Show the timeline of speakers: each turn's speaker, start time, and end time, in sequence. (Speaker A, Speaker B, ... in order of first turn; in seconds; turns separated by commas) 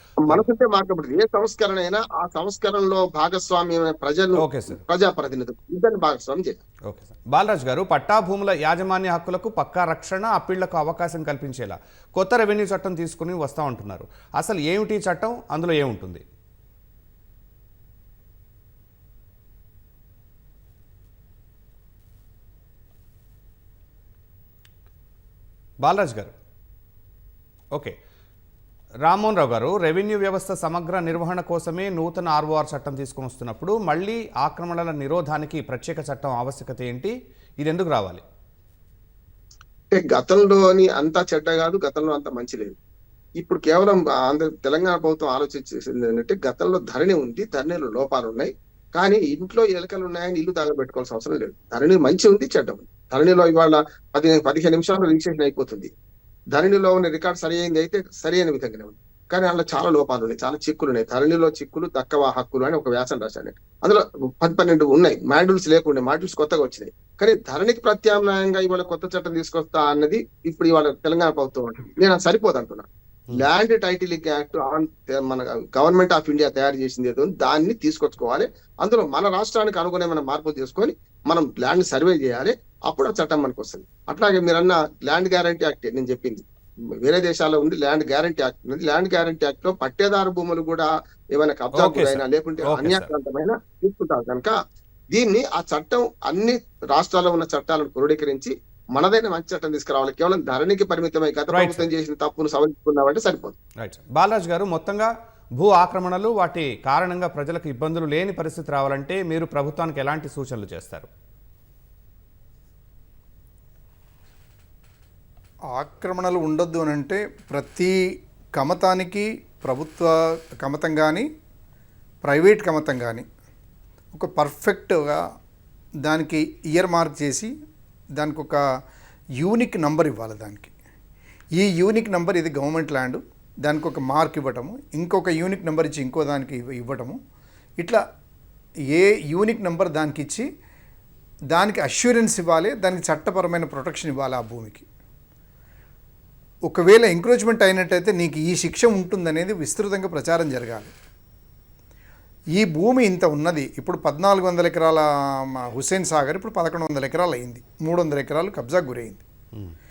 Speaker A: 0.2-6.6, Speaker B: 4.4-4.8, Speaker B: 6.9-16.2, Speaker B: 25.8-26.3, Speaker B: 29.0-38.2, Speaker A: 39.9-42.8, Speaker A: 43.4-55.9, Speaker A: 56.5-86.5, Speaker A: 87.0-94.5, Speaker B: 91.8-93.1, Speaker A: 95.1-103.6, Speaker B: 101.5-101.9, Speaker B: 103.8-111.1, Speaker C: 115.8-118.0, Speaker C: 118.6-121.3, Speaker C: 122.2-123.3, Speaker C: 124.1-125.2, Speaker C: 126.1-127.5, Speaker C: 128.2-128.6, Speaker C: 129.4-130.7, Speaker C: 131.6-137.2, Speaker C: 138.9-140.5, Speaker C: 141.5-144.9, Speaker C: 146.7-150.9, Speaker C: 152.6-159.2